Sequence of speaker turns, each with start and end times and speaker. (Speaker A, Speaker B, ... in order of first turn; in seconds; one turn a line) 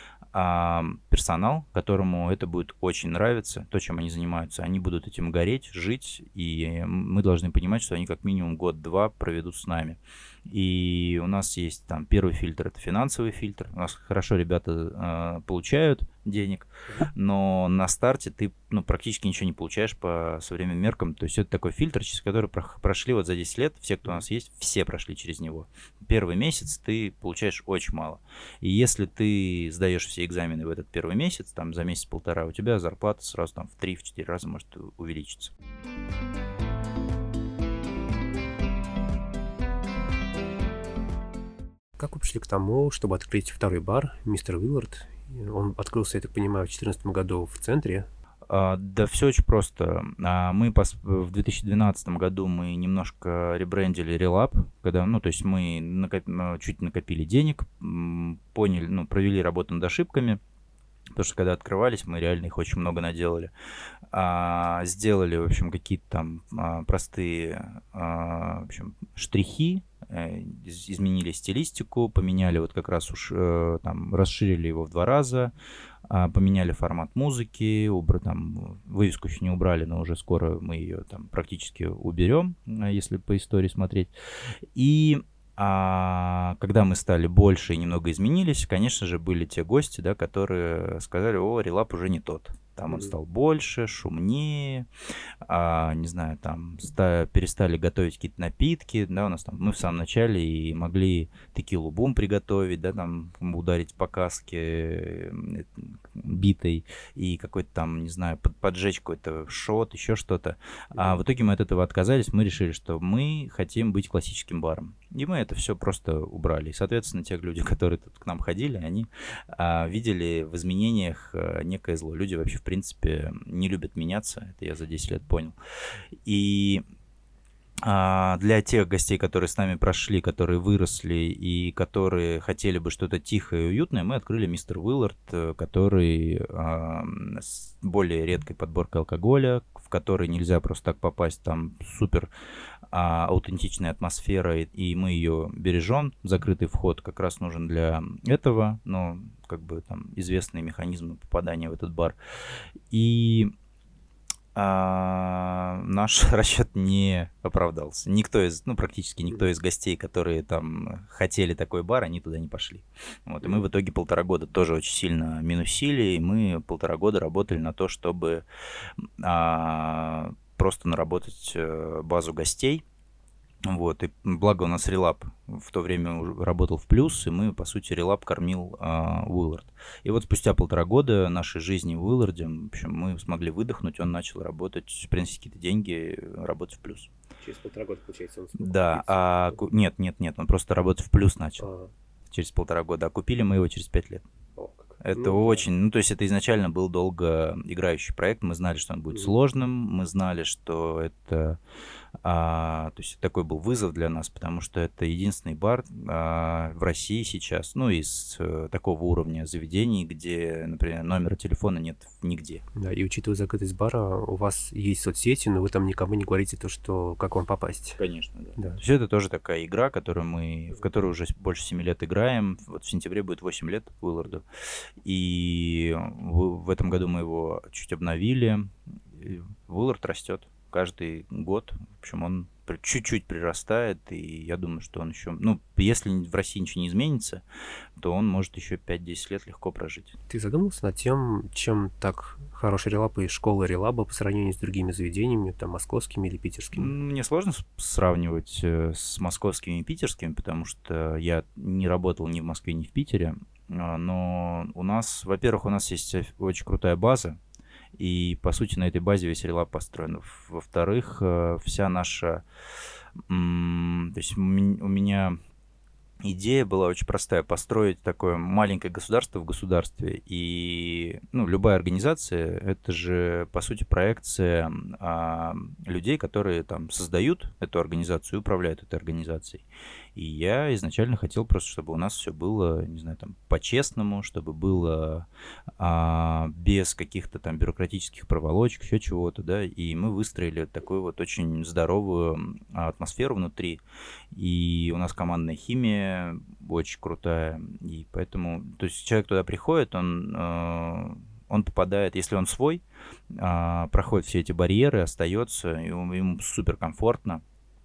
Speaker A: 0.3-35.5
Speaker B: 42.0-48.1
Speaker A: 48.5-60.4
Speaker A: 61.1-63.5
Speaker A: 64.1-75.5
Speaker A: 76.1-94.9
Speaker A: 95.5-125.5
Speaker A: 126.2-126.8
Speaker A: 127.8-142.3
Speaker A: 142.9-153.5
Speaker A: 154.5-168.4
Speaker A: 169.0-172.8
Speaker A: 173.7-187.1
Speaker B: 187.4-189.6
Speaker A: 188.6-191.7
Speaker B: 191.6-191.9
Speaker A: 192.3-194.2
Speaker B: 194.6-195.7
Speaker A: 195.0-201.6
Speaker A: 202.2-212.6
Speaker B: 212.8-218.0
Speaker A: 218.0-224.4
Speaker A: 225.0-237.4
Speaker A: 238.0-240.2
Speaker B: 240.3-246.9
Speaker A: 246.8-257.4
Speaker A: 258.0-262.4
Speaker A: 263.3-265.4
Speaker A: 266.2-285.3
Speaker A: 285.8-307.4